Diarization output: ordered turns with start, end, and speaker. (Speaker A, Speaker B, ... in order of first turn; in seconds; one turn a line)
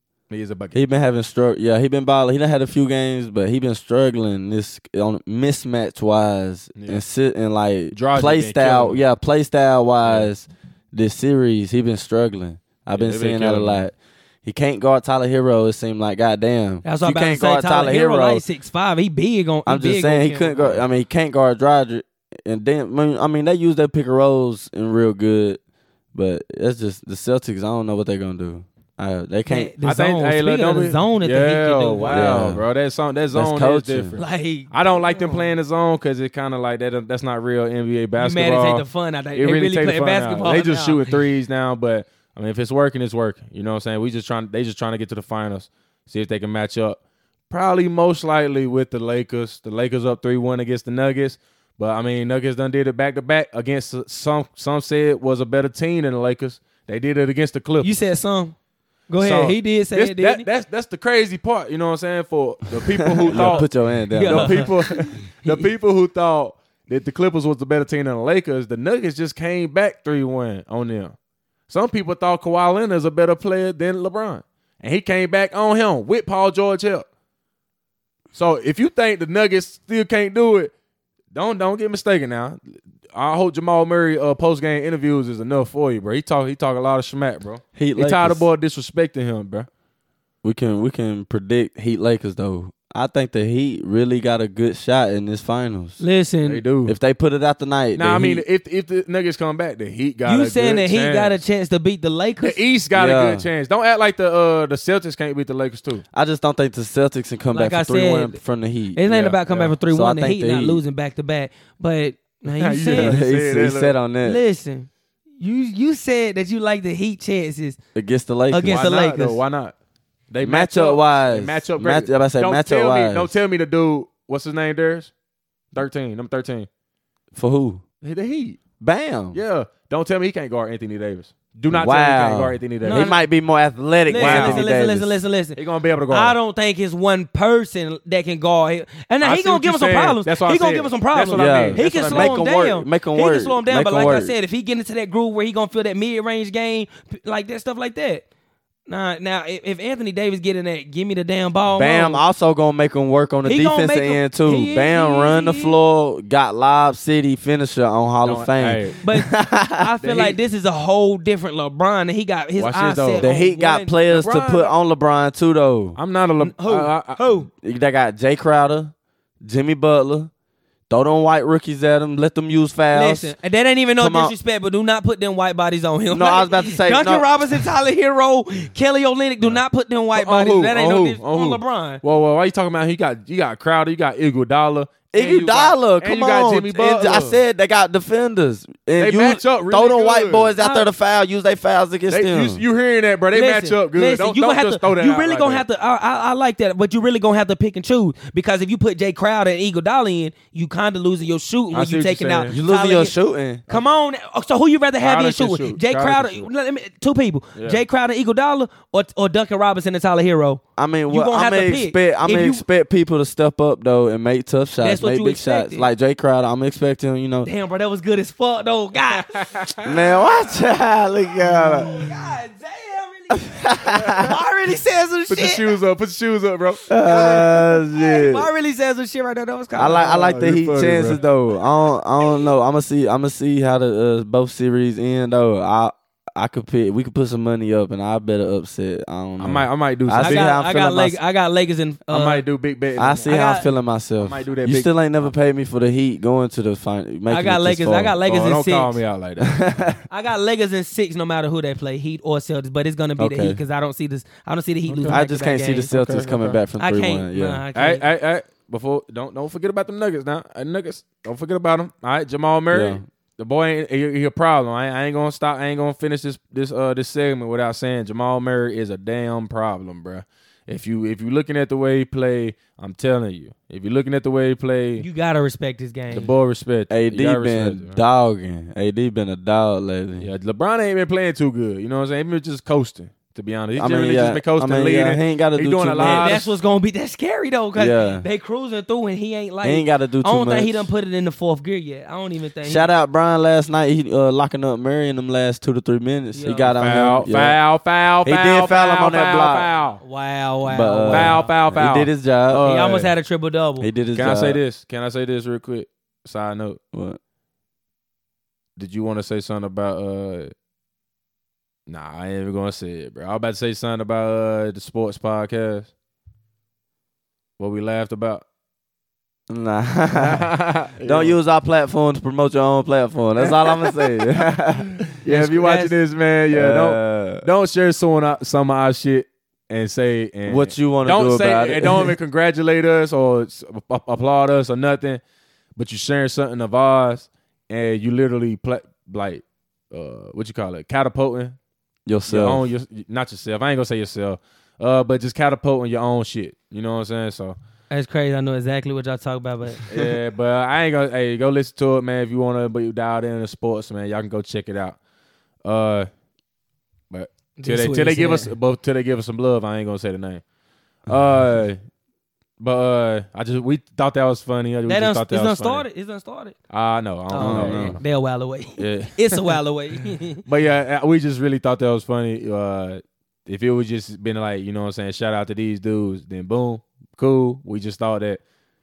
Speaker A: 0.3-0.8
Speaker B: 0.7-18.4
Speaker A: 6.8-7.0
Speaker A: 7.9-9.0
Speaker A: 10.0-10.3
Speaker A: 12.9-13.8
Speaker C: 16.9-20.7
Speaker B: 19.7-25.6
Speaker B: 26.1-29.7
Speaker C: 29.5-32.4
Speaker A: 29.8-57.9
Speaker B: 32.1-32.7
Speaker B: 33.3-34.2
Speaker C: 34.2-35.5
Speaker C: 38.2-41.1
Speaker C: 57.8-58.5
Speaker C: 59.1-60.5
Speaker A: 59.2-63.7
Speaker B: 63.1-64.8
Speaker C: 63.3-65.7
Speaker A: 64.2-71.2
Speaker A: 71.7-77.1
Speaker A: 78.3-80.7
Speaker A: 81.3-89.7
Speaker B: 87.8-88.5
Speaker B: 90.4-96.0
Speaker C: 96.0-96.6
Speaker A: 96.4-97.0
Speaker B: 96.8-98.5
Speaker A: 98.0-101.4
Speaker C: 100.2-102.6
Speaker A: 102.4-106.0
Speaker B: 102.9-103.5
Speaker B: 106.1-109.0
Speaker C: 107.5-108.4
Speaker C: 108.9-113.2
Speaker A: 109.1-109.8
Speaker B: 109.9-110.8
Speaker A: 112.5-114.0
Speaker B: 112.9-114.4
Speaker C: 114.2-114.9
Speaker C: 115.4-117.8
Speaker B: 118.0-118.8
Speaker C: 118.5-119.4
Speaker A: 118.7-119.8
Speaker A: 120.3-125.1
Speaker B: 120.4-123.3
Speaker A: 125.7-126.7
Speaker B: 127.3-127.8
Speaker A: 128.0-128.6
Speaker B: 128.8-129.4
Speaker A: 129.3-133.2
Speaker B: 131.7-135.1
Speaker C: 132.8-133.2
Speaker C: 134.1-135.6
Speaker A: 134.1-134.6
Speaker A: 135.6-136.4
Speaker C: 136.1-148.2
Speaker A: 139.2-142.4
Speaker B: 141.3-144.3
Speaker C: 148.9-152.2
Speaker B: 151.7-159.9
Speaker C: 153.4-155.8
Speaker A: 158.2-159.0
Speaker C: 159.0-164.0
Speaker A: 160.0-160.4
Speaker A: 162.6-163.3
Speaker B: 163.2-166.0
Speaker A: 164.1-164.7
Speaker A: 165.9-167.3
Speaker C: 166.4-167.5
Speaker B: 167.6-170.3
Speaker B: 170.9-173.3
Speaker C: 172.9-182.0
Speaker B: 174.0-174.3
Speaker B: 176.1-177.3
Speaker A: 180.2-187.4
Speaker B: 185.1-192.6
Speaker A: 189.0-190.5
Speaker C: 190.6-190.9
Speaker A: 192.1-195.7
Speaker C: 193.3-203.2
Speaker A: 201.7-202.6
Speaker B: 202.5-203.6
Speaker C: 203.7-212.6
Speaker A: 205.0-206.5
Speaker A: 207.6-207.8
Speaker B: 210.8-217.5
Speaker C: 214.8-215.9
Speaker C: 217.4-219.3
Speaker A: 219.2-219.9
Speaker B: 219.8-221.9
Speaker C: 221.8-225.7
Speaker B: 223.3-224.3
Speaker A: 225.3-227.4
Speaker B: 226.9-228.5
Speaker C: 227.0-230.3
Speaker B: 229.8-241.2
Speaker A: 230.0-231.2
Speaker C: 231.2-232.5
Speaker A: 239.4-240.5
Speaker C: 240.2-242.5
Speaker A: 242.1-243.4
Speaker B: 243.0-248.2
Speaker C: 243.2-243.7
Speaker A: 244.2-245.3
Speaker C: 247.3-249.0
Speaker A: 248.2-249.6
Speaker B: 249.4-250.0
Speaker C: 250.1-255.9
Speaker B: 253.2-253.6
Speaker A: 254.9-255.2
Speaker B: 255.1-257.6
Speaker A: 255.9-256.6
Speaker C: 256.8-258.0
Speaker A: 257.7-275.1
Speaker B: 262.7-263.0
Speaker C: 275.0-276.3
Speaker A: 276.1-278.0
Speaker B: 276.9-280.3
Speaker A: 280.2-286.5
Speaker B: 283.8-286.4
Speaker C: 286.0-292.9
Speaker B: 287.8-288.3
Speaker B: 289.6-290.9
Speaker B: 292.6-297.6
Speaker C: 296.3-296.8
Speaker A: 296.7-300.0
Speaker B: 298.2-299.7
Speaker C: 300.0-301.5
Speaker B: 300.7-302.6
Speaker A: 301.1-303.1
Speaker C: 302.6-303.9
Speaker B: 303.8-304.6
Speaker A: 304.1-306.8
Speaker B: 306.9-307.2
Speaker A: 308.8-310.5
Speaker A: 311.9-315.9
Speaker A: 317.6-318.4
Speaker B: 319.5-320.5
Speaker A: 320.2-321.4
Speaker B: 321.0-325.0
Speaker A: 323.4-324.1
Speaker A: 325.2-335.2
Speaker C: 325.3-326.0
Speaker B: 326.5-327.5
Speaker B: 330.4-332.2
Speaker A: 335.8-341.6
Speaker B: 342.1-342.7
Speaker A: 342.3-347.6
Speaker C: 347.9-349.8
Speaker A: 349.9-355.0
Speaker A: 355.6-356.1
Speaker A: 357.1-360.4
Speaker C: 357.6-358.5
Speaker A: 361.1-361.8
Speaker A: 362.6-365.9
Speaker C: 364.9-366.6
Speaker A: 366.7-368.0
Speaker C: 367.3-370.4
Speaker B: 367.3-368.0
Speaker A: 368.8-369.6
Speaker A: 370.5-378.4